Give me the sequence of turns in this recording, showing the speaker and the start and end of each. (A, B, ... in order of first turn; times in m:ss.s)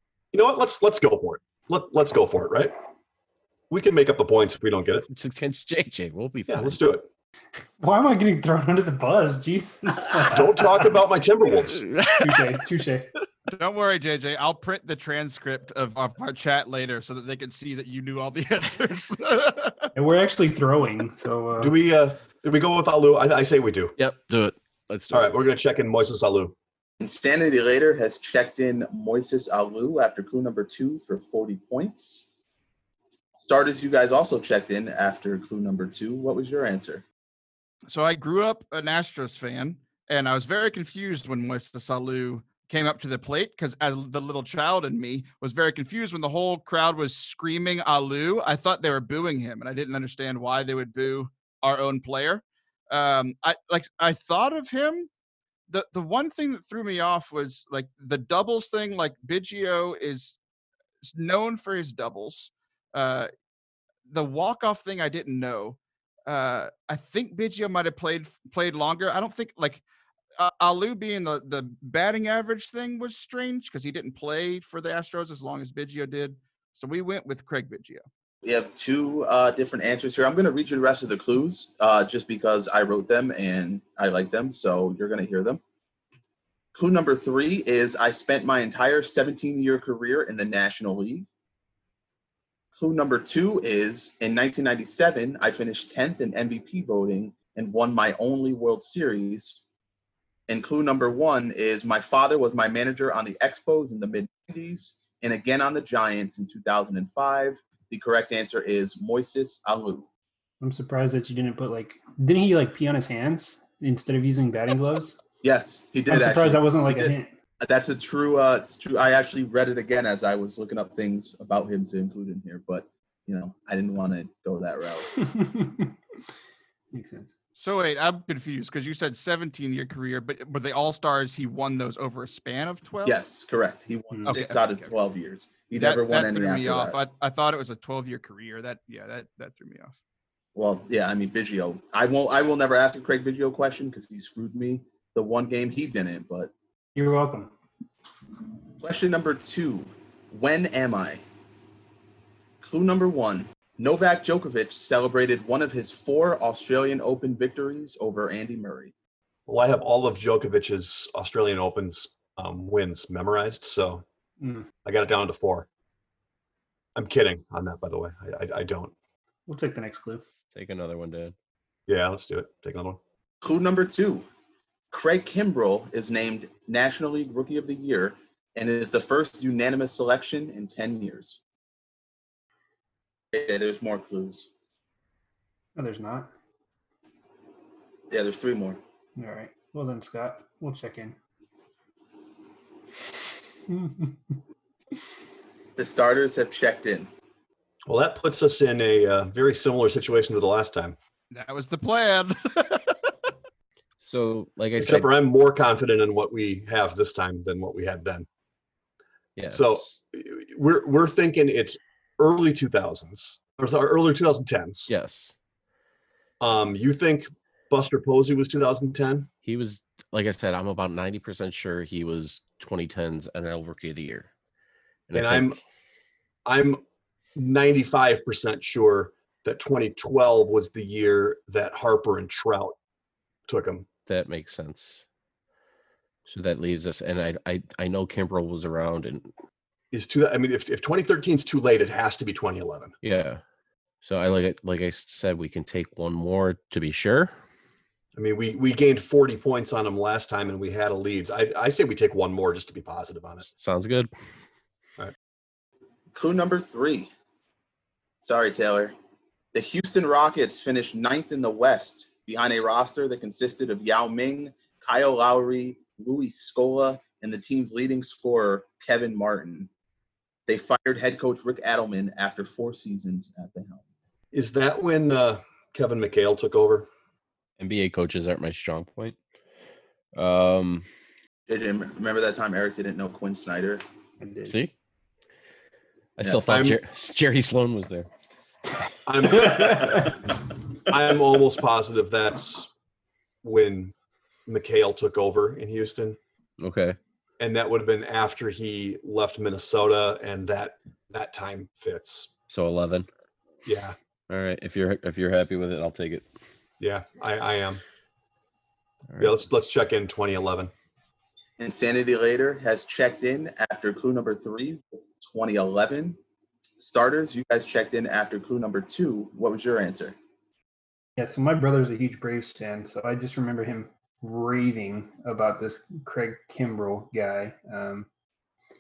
0:00.3-0:02.7 A
0:03.7-0:05.0 A
0:05.1-0:06.8 B
0:06.5-0:07.1 A
0:07.8-0:10.9 C
0:10.2-0:11.8 A
0:11.9-0:12.4 B
0:12.1-0:13.1 C
0:13.5-0:19.9 D
0:20.0-0:21.7 C
0:21.6-0:23.9 A
0:24.0-0:25.3 B
0:25.1-0:26.5 A
0:27.0-0:32.3 E
0:33.4-0:37.0 E
0:37.9-0:55.1 D
0:55.7-1:00.4 D
1:01.0-1:03.3 D
1:04.1-1:09.8 D
1:10.4-1:18.0 D
1:18.4-1:25.6 E
1:26.7-1:31.3 E
1:32.7-1:39.6 E
1:40.5-1:50.1 E
1:50.6-1:55.2 C
1:55.4-2:05.1 E
1:56.1-1:57.3 C
2:05.1-2:06.0 C
2:06.9-2:07.3 C
2:07.6-2:13.2 D
2:13.0-2:17.0 E
2:14.3-2:14.9 D
2:15.7-2:19.9 D
2:20.6-2:26.5 E
2:26.9-2:27.5 C
2:28.8-2:31.2 E
2:32.6-2:38.9 E
2:39.5-2:44.0 A
2:44.4-2:44.7 C
2:44.8-2:45.7 A
2:46.9-2:48.9 A
2:49.5-2:50.2 C
2:50.5-2:51.3 B
2:51.9-2:53.0 A
2:53.4-2:54.2 E
2:54.9-3:01.4 E
3:03.3-3:04.5 E
3:05.8-3:06.3 C
3:08.1-3:08.8 E
3:09.2-3:11.2 C
3:13.7-3:14.4 C
3:15.8-3:17.1 E
3:17.9-3:21.0 A
3:21.3-3:23.0 D
3:24.0-3:25.1 B
3:24.8-3:28.3 A
3:29.4-3:30.0 B
3:29.5-3:34.9 A
3:34.9-3:35.3 B
3:36.4-3:39.3 A
3:39.4-3:44.3 B
3:45.1-3:45.6 B
3:45.1-3:45.6 A
3:46.4-3:46.8 A
3:47.3-3:52.7 A
3:53.5-3:53.9 A
3:54.1-3:55.0 B
3:56.3-3:59.3 B
3:59.9-4:02.9 A
4:03.0-4:03.4 B
4:04.0-4:07.3 B
4:08.1-4:13.5 A
4:13.5-4:14.1 B
4:16.1-4:17.1 E
4:18.2-4:18.9 E
4:19.5-4:29.7 E
4:30.5-4:33.8 E
4:34.3-4:36.9 A
4:37.6-4:39.2 B
4:40.1-4:40.8 B
4:41.5-4:43.8 E
4:44.2-4:44.5 C
4:44.4-4:44.7 B
4:46.2-4:48.1 B
4:46.4-4:46.8 A
4:49.0-4:50.2 A
4:49.5-4:50.1 C
4:50.8-4:52.7 A
4:53.4-4:53.9 A
4:54.5-4:56.2 A
4:56.6-4:57.0 B
4:57.4-5:02.3 A
5:02.5-5:03.1 B
5:03.6-5:04.0 A
5:04.3-5:06.2 B
5:06.8-5:07.8 A
5:09.2-5:10.7 A
5:11.6-5:16.2 E
5:16.8-5:20.2 E
5:21.2-5:28.1 C